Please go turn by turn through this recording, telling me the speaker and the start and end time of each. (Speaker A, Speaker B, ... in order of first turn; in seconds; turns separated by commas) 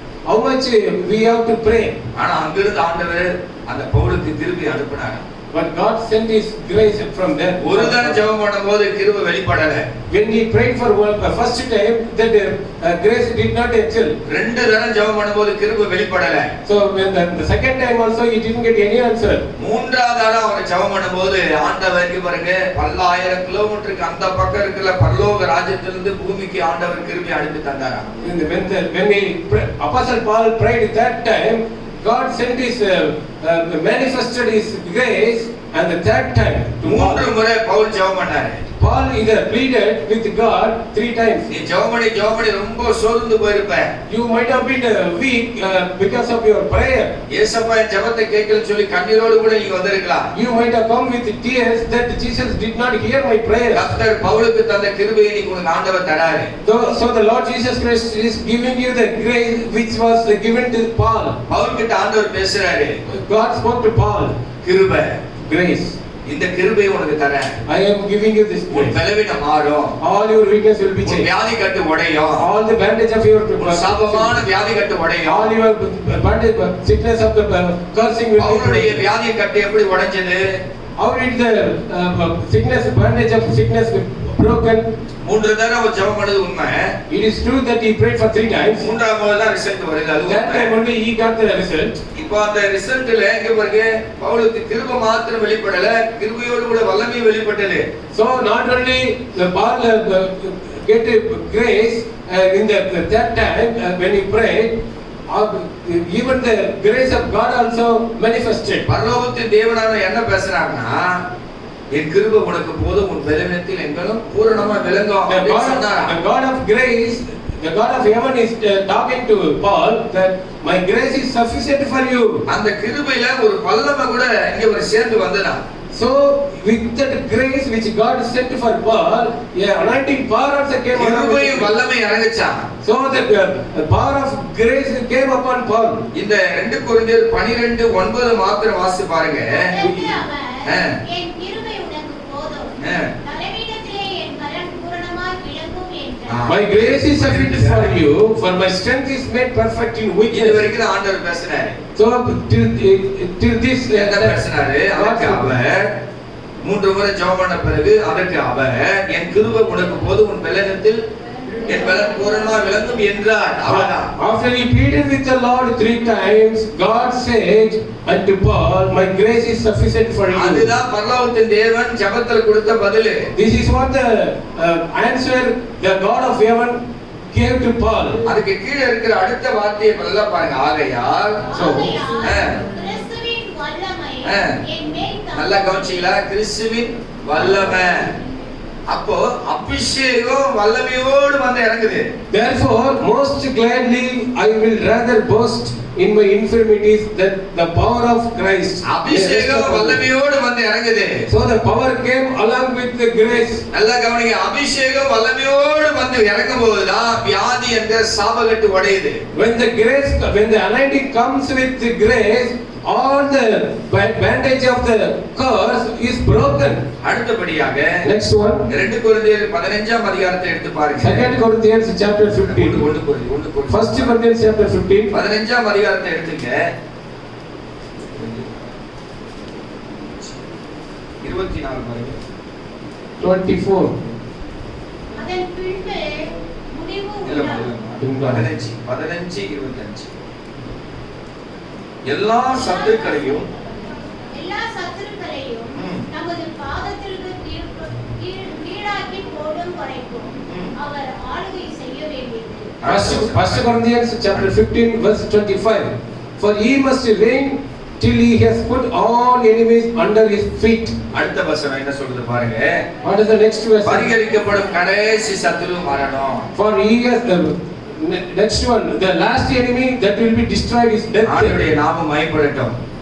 Speaker A: 0.3-2.0, Speaker B: 2.1-5.2, Speaker A: 5.5-8.2, Speaker B: 7.6-9.8, Speaker A: 10.1-14.2, Speaker B: 14.2-16.5, Speaker A: 16.6-19.4, Speaker B: 19.6-28.2, Speaker A: 28.2-37.2, Speaker B: 36.8-38.6, Speaker A: 38.8-41.5, Speaker B: 41.5-43.9, Speaker A: 44.1-47.1, Speaker B: 47.3-50.3, Speaker A: 50.3-53.9, Speaker B: 53.7-56.5, Speaker A: 56.6-61.4, Speaker B: 61.5-63.0, Speaker A: 63.0-64.3, Speaker B: 64.6-65.2, Speaker A: 65.4-66.0, Speaker B: 66.2-67.6, Speaker A: 67.7-69.0, Speaker B: 68.7-69.9, Speaker A: 70.0-71.3, Speaker B: 71.0-72.5, Speaker A: 72.4-74.4, Speaker B: 73.6-75.5, Speaker A: 75.2-79.0, Speaker B: 78.4-80.6, Speaker A: 81.0-84.9, Speaker B: 85.2-86.9, Speaker A: 87.1-88.9, Speaker B: 88.7-90.7, Speaker A: 90.2-92.0, Speaker B: 92.1-97.8, Speaker A: 98.1-108.9, Speaker B: 108.9-111.2, Speaker B: 111.9-116.1, Speaker A: 115.3-122.4, Speaker B: 122.5-125.6, Speaker A: 125.9-131.7, Speaker B: 130.9-132.6, Speaker A: 132.8-136.0, Speaker B: 136.1-139.7, Speaker C: 139.5-146.5, Speaker A: 139.8-140.1, Speaker B: 140.6-141.0, Speaker B: 142.8-143.1, Speaker B: 146.3-147.9, Speaker A: 146.5-150.7, Speaker B: 150.3-151.8, Speaker A: 151.9-154.4, Speaker B: 153.9-155.9, Speaker A: 154.9-155.6, Speaker B: 156.6-161.0, Speaker B: 161.6-164.1, Speaker A: 163.7-170.7, Speaker B: 170.3-173.3, Speaker A: 173.3-176.8, Speaker A: 177.3-178.2, Speaker B: 178.2-181.4, Speaker C: 181.4-186.2, Speaker A: 181.5-182.0, Speaker B: 182.2-182.6, Speaker B: 184.2-184.6, Speaker B: 185.3-188.1, Speaker B: 188.9-192.1, Speaker A: 192.3-200.0, Speaker B: 198.8-201.2, Speaker A: 201.3-203.6, Speaker B: 203.7-209.2, Speaker A: 209.3-216.8, Speaker B: 217.0-218.0, Speaker A: 218.0-218.7, Speaker B: 218.7-221.3, Speaker A: 221.0-222.8, Speaker B: 222.4-224.1, Speaker A: 223.7-225.2, Speaker B: 225.1-226.6, Speaker B: 228.0-228.7, Speaker B: 229.9-230.4, Speaker B: 231.2-232.2, Speaker A: 233.2-234.0, Speaker C: 235.1-237.7, Speaker B: 237.2-240.1, Speaker A: 238.0-238.4, Speaker B: 242.1-243.5, Speaker C: 242.5-252.8, Speaker B: 245.7-246.1, Speaker B: 250.5-250.8, Speaker B: 252.8-253.8, Speaker A: 252.8-260.9, Speaker B: 261.1-262.9, Speaker A: 263.0-264.1, Speaker B: 263.8-266.5, Speaker A: 266.5-271.6, Speaker B: 271.2-272.8